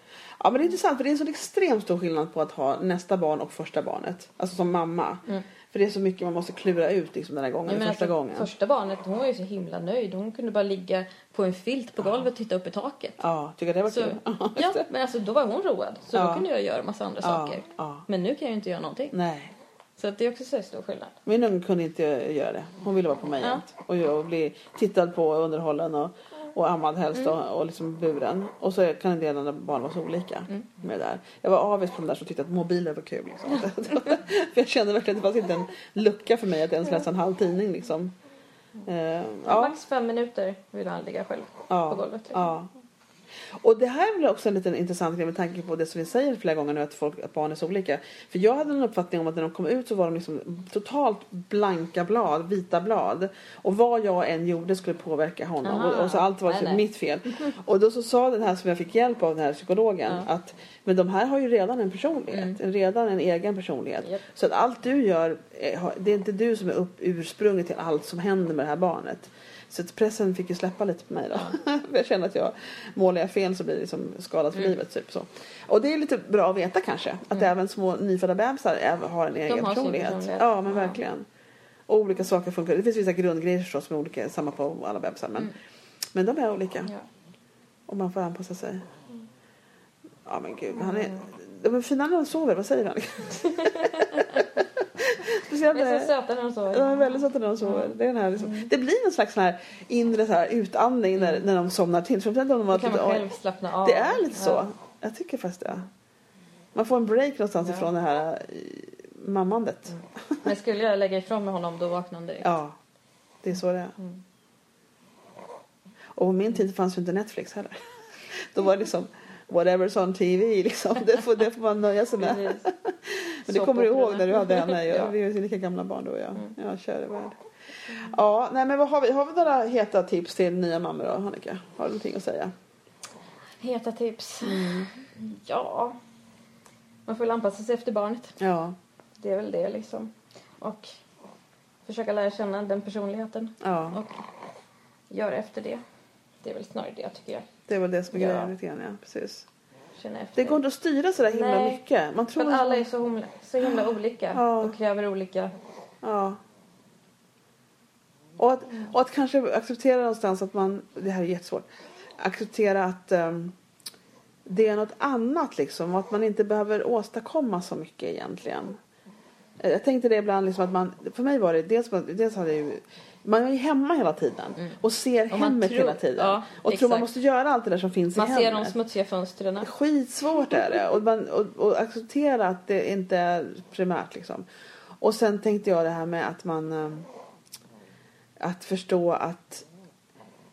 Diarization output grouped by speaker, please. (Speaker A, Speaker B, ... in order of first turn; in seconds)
Speaker A: 0.4-8.5, 13.2-14.8, 16.1-16.5, 17.2-18.0, 19.1-19.5, 21.2-38.1, 38.8-39.8, 41.7-42.7, 43.6-81.2, 81.9-85.5, 86.1-86.9, 87.9-88.8, 90.2-96.1, 96.7-103.3, 103.8-105.9, 106.7-110.4, 112.4-112.7, 113.4-114.0, 116.2-127.4, 127.9-132.5, 134.4-134.9, 138.4-138.8, 143.6-144.0, 147.7-149.4, 150.4-152.9, 153.6-154.8, 156.0-156.4, 158.4-161.7, 162.2-163.5, 164.4-168.8, 169.6-178.7, 179.6-184.4, 185.0-187.1, 188.4-189.7
Speaker B: 7.7-13.2, 13.9-19.1, 20.0-21.1, 39.4-42.5, 55.6-56.8, 62.3-62.6, 79.5-81.0, 90.8-91.2, 93.4-94.6, 95.7-97.0, 97.6-98.7, 102.7-104.7, 110.4-112.5, 122.2-122.7, 123.5-125.1, 133.6-136.0, 137.1-138.4, 139.2-140.9, 141.8-144.2, 145.1-145.8, 146.4-147.5, 148.1-148.5, 150.0-150.6, 151.3-151.8, 152.3-155.5, 175.3-177.1, 178.2-179.7